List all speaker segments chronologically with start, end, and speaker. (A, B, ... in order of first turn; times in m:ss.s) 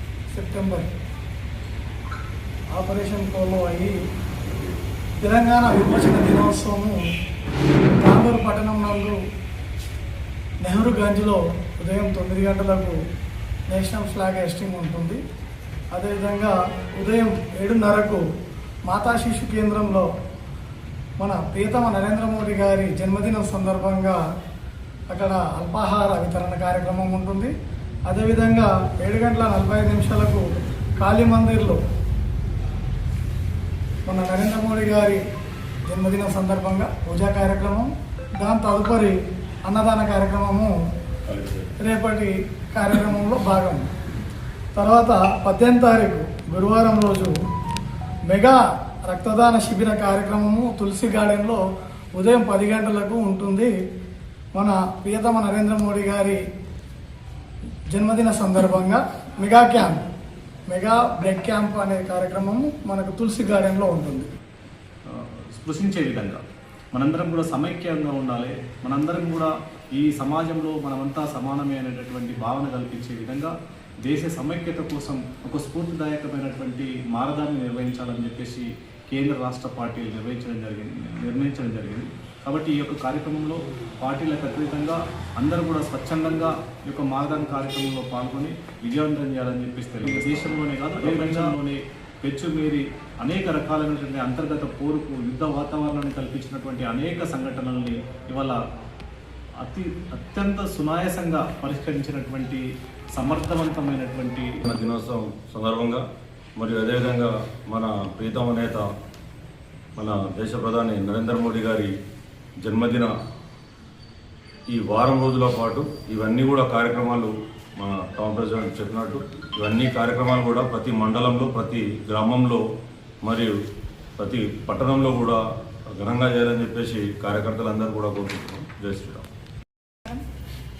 0:00.3-0:00.9 A
0:02.7-0:04.0 A
0:05.2-0:07.0 A
0:08.0-0:09.2 A
0:10.6-0:13.0 A
0:13.7-0:15.2 A
0:15.9-0:18.2 A
0:18.9-0:20.1 A
0:21.2-0:24.2 A
0:25.1-0:27.5 A
0:28.1-0:31.8 A
0:34.0-0:35.2 A
0:35.9-0:40.7 A
0:41.3-0:41.7 B
0:41.8-0:43.8 A
0:44.8-0:47.3 A
0:48.3-0:51.6 A
0:52.2-0:53.7 A
0:54.5-0:56.4 A
0:57.9-1:00.0 A
1:00.7-1:04.3 A
1:05.1-1:06.4 C
1:06.9-1:13.5 C
1:14.0-1:38.6 C
1:31.0-1:31.5 B
1:39.6-1:42.6 C
1:43.1-1:44.6 C
1:44.6-1:46.0 B
1:46.6-1:48.8 B
1:50.0-1:51.9 B
1:52.6-1:53.1 B
1:54.7-2:02.6 B
2:03.2-2:03.5 B
2:04.2-2:05.4 B
2:05.9-2:09.2 B